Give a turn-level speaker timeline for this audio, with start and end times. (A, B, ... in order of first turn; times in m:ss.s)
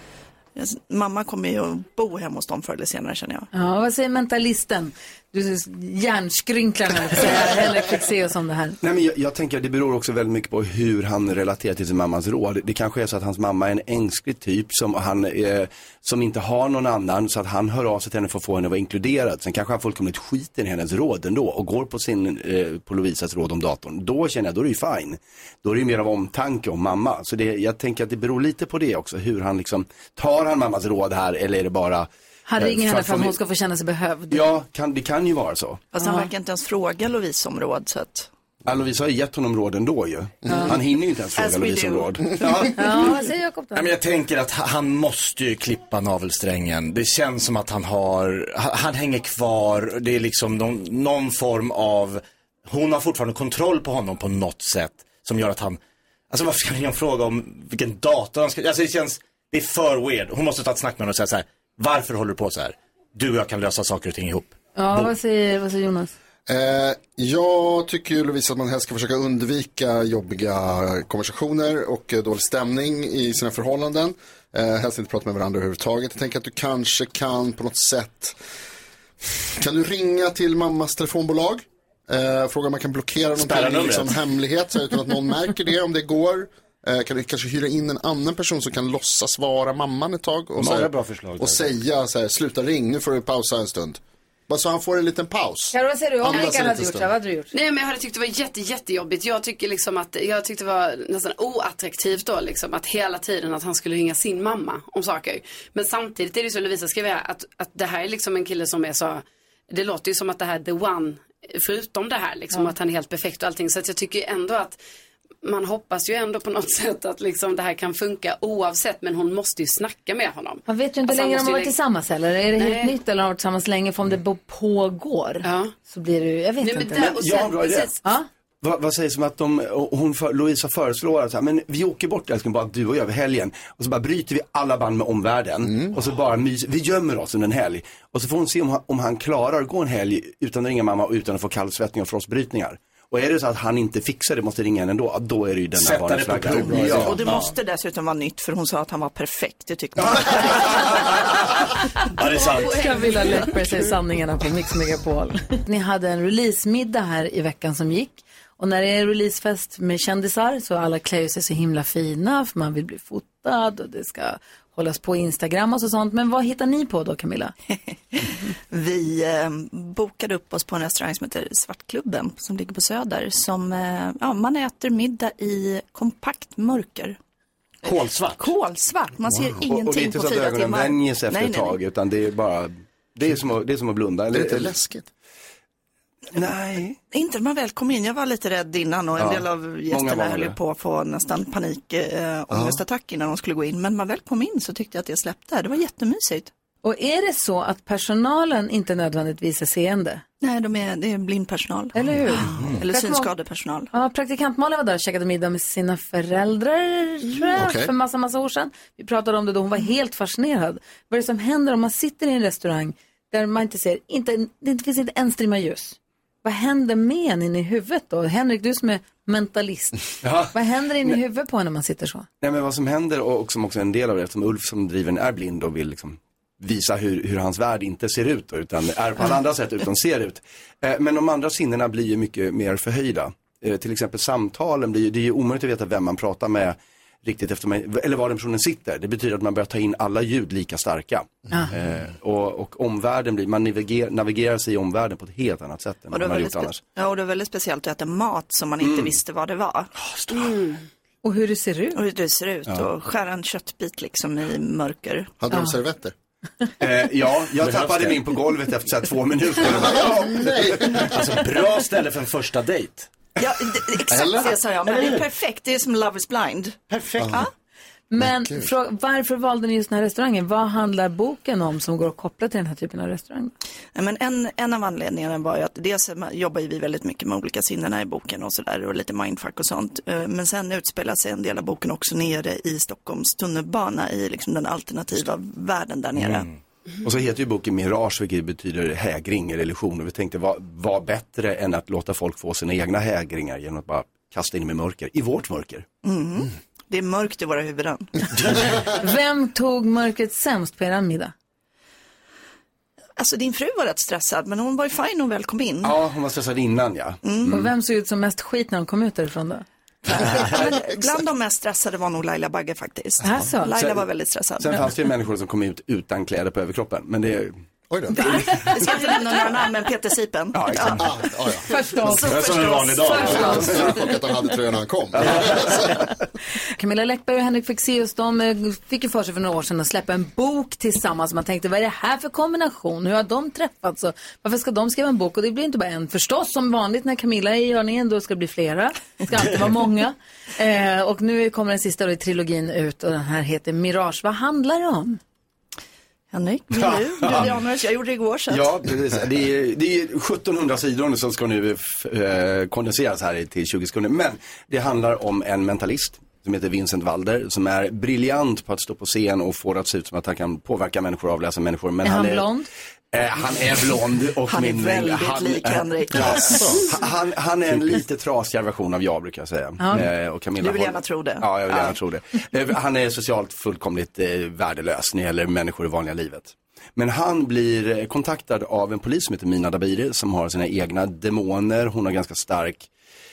0:00.6-0:03.5 A
0:03.5-0:08.8 B
0:08.8-0:33.4 C
0:32.5-0:34.5 B
0:34.3-0:35.8 C
0:35.9-0:38.3 A
0:36.0-0:36.3 B
0:38.6-0:42.8 C
0:40.5-0:40.7 B
0:41.4-0:42.5 A
0:42.7-0:43.9 B
0:43.7-0:55.8 D
0:56.3-1:05.1 D
1:04.8-1:06.1 B
1:06.5-1:18.4 E
1:19.6-1:37.1 E
1:23.4-1:24.2 D
1:30.6-1:31.7 D
1:35.7-1:37.5 B
1:37.5-1:54.8 F
1:55.4-2:01.8 F
2:00.7-2:07.1 B
2:02.6-2:03.0 F
2:05.4-2:05.7 F
2:06.6-2:07.9 F
2:06.9-2:07.9 C
2:08.6-2:27.2 C
2:15.6-2:16.0 E
2:25.7-2:27.5 D
2:26.8-2:31.1 A
2:32.2-2:33.4 D
2:32.2-2:47.5 B
2:48.1-2:57.2 A
2:57.8-2:58.5 D
2:57.8-3:01.8 A
2:59.3-2:59.6 E
2:59.7-3:04.7 C
3:04.3-3:05.1 E
3:06.3-3:07.0 C
3:07.1-3:16.5 A
3:09.2-3:10.6 C
3:12.5-3:12.8 E
3:16.8-3:20.2 B
3:20.4-3:23.9 A
3:21.9-3:23.3 B
3:23.9-3:42.3 B
3:27.5-3:27.9 E
3:40.2-3:41.1 C
3:42.4-4:06.8 C
4:06.1-4:09.9 A
4:08.8-4:09.2 C
4:11.2-4:12.0 B
4:11.9-4:15.3 A
4:15.4-4:16.1 E
4:16.8-4:20.4 C
4:17.6-4:18.2 D
4:19.6-4:21.3 E
4:20.9-4:23.1 D
4:23.4-4:27.5 A
4:24.1-4:24.5 E
4:24.9-4:25.2 D
4:26.9-4:27.4 D
4:28.1-4:33.5 B
4:28.2-4:28.7 E
4:33.9-4:46.5 A
4:46.2-4:46.5 D
4:47.0-4:55.9 C
4:56.0-4:58.4 A
4:58.9-5:01.3 B
5:03.2-5:05.9 A
5:05.8-5:07.6 C
5:07.2-5:07.6 A
5:07.5-5:09.6 B
5:10.0-5:14.8 A
5:13.2-5:13.7 B
5:13.8-5:14.0 C
5:14.6-5:17.6 C
5:17.9-5:18.5 E
5:18.2-5:21.1 A
5:20.6-5:20.9 C
5:20.9-5:21.7 E
5:21.7-5:23.9 B
5:22.1-5:23.3 A
5:22.1-5:23.5 D
5:23.2-5:26.0 E
5:26.8-5:45.2 B
5:46.3-5:48.7 A
5:48.5-6:02.5 C
6:02.0-6:02.7 B
6:03.1-6:22.9 C
6:04.5-6:06.8 A
6:06.4-6:06.8 E
6:09.8-6:10.1 B
6:10.6-6:12.0 A